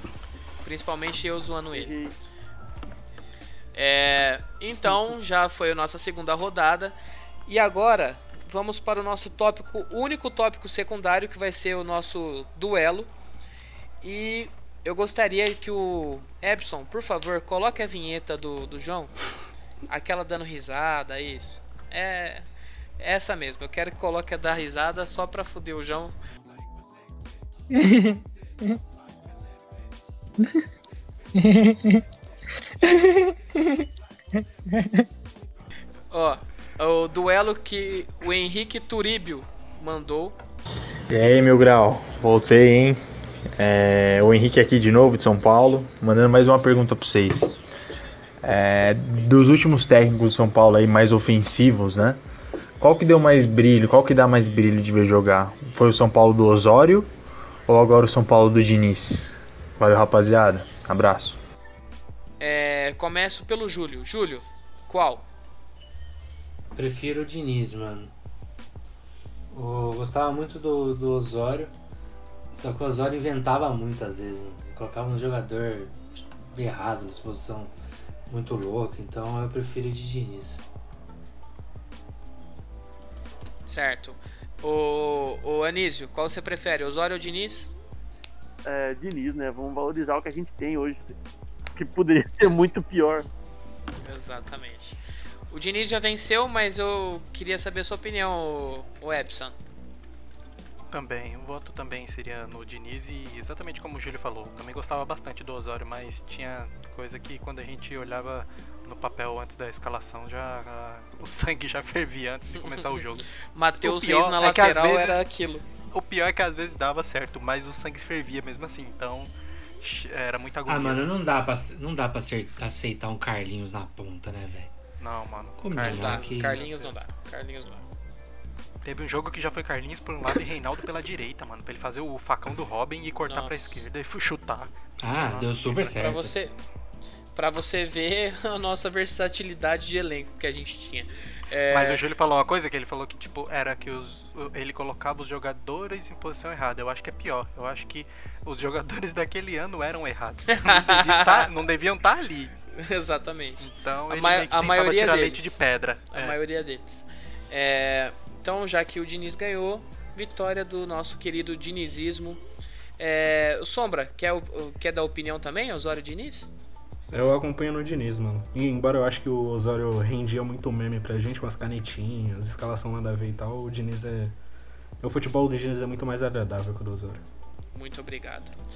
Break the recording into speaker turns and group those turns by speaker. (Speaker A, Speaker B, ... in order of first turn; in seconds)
Speaker A: 0.6-1.9, 3.8-7.0, 7.5-13.1, 14.0-19.1, 19.9-22.4, 23.0-26.1, 36.1-40.4, 62.4-65.2, 83.7-87.7, 94.0-95.0, 95.5-99.6, 112.6-115.6, 125.8-127.8, 133.3-133.9, 136.0-136.5, 137.4-142.0, 150.5-151.5, 152.7-155.6, 156.1-162.4, 163.0-166.5, 177.7-178.5
Speaker B: 1.7-2.2, 88.7-91.2, 91.8-93.3
Speaker C: 41.1-43.0, 43.6-47.5, 48.4-52.2, 52.8-57.1, 57.7-61.4
Speaker D: 66.8-68.1, 69.5-71.7, 72.5-77.7, 78.3-80.6, 120.7-124.7, 125.6-126.6, 135.0-136.3
Speaker E: 100.9-113.3, 113.8-115.2, 115.9-121.1, 125.0-127.0, 128.8-136.1, 141.7-152.6, 153.6-156.4
Speaker F: 167.1-174.3, 175.0-177.2